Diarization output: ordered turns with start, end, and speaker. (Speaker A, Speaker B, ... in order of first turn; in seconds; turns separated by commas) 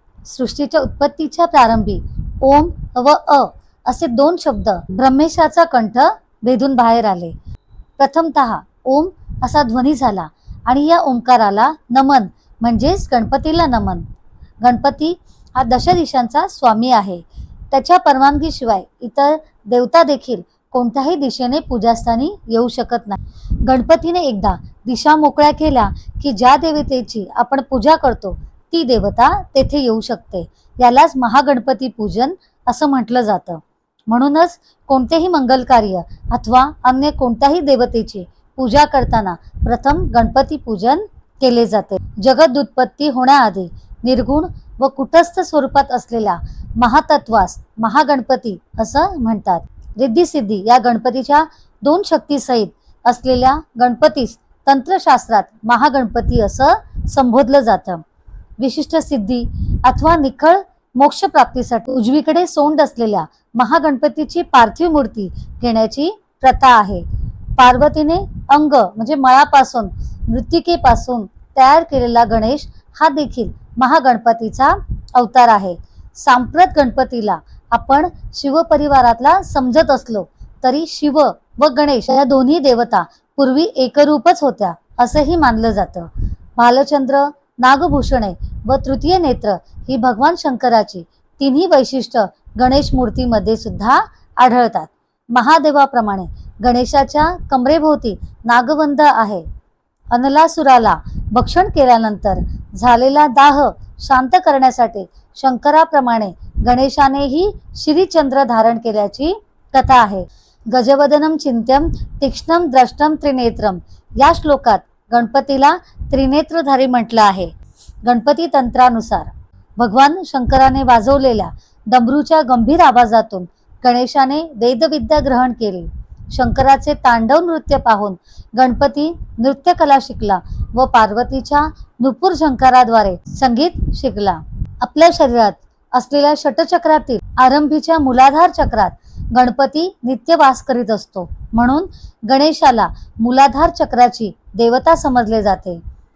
Speaker A: 0.2-7.3, Speaker A: 8.0-14.1, Speaker A: 14.6-58.0, Speaker A: 58.6-99.5, Speaker A: 100.1-117.5, Speaker A: 118.0-145.8